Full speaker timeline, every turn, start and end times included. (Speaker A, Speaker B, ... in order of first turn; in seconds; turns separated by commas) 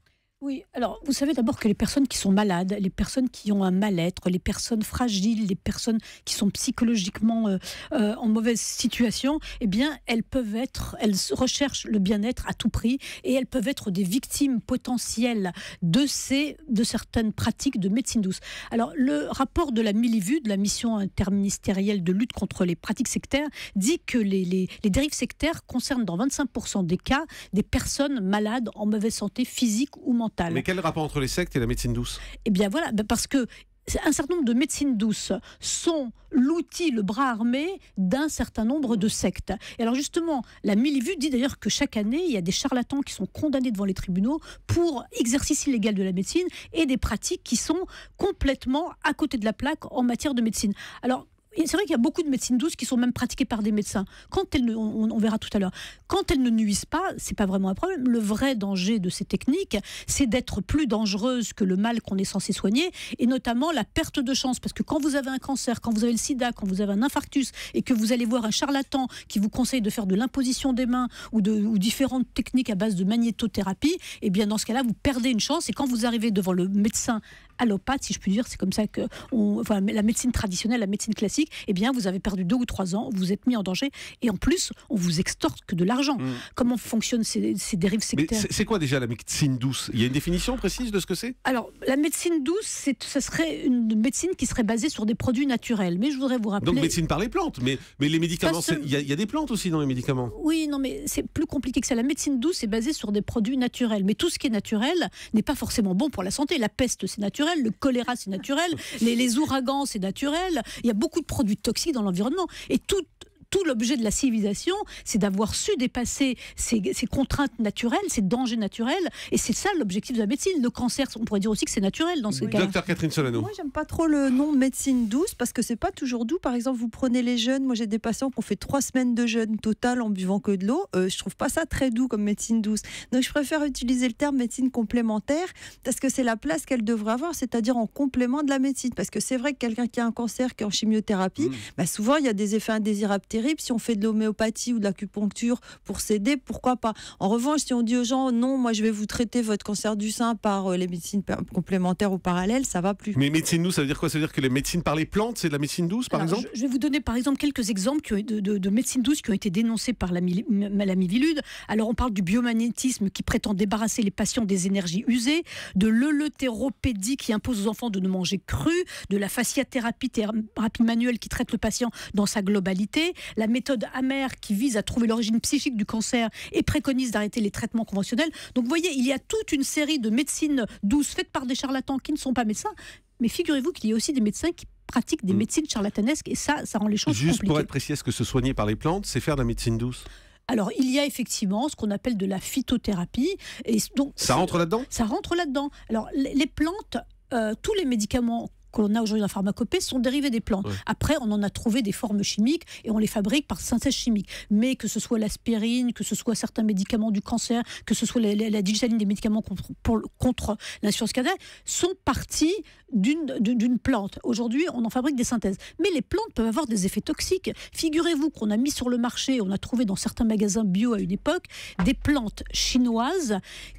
Speaker A: 0.4-30.6, Speaker B: 30.5-32.2, Speaker A: 32.4-88.5, Speaker B: 88.1-91.3, Speaker A: 91.4-96.9, Speaker B: 96.6-100.3, Speaker A: 98.4-98.9, Speaker A: 100.3-122.7, Speaker B: 122.4-123.5, Speaker C: 122.4-153.2, Speaker B: 153.1-156.4, Speaker A: 156.1-187.7, Speaker B: 187.1-190.0, Speaker A: 190.5-223.4, Speaker B: 194.2-194.9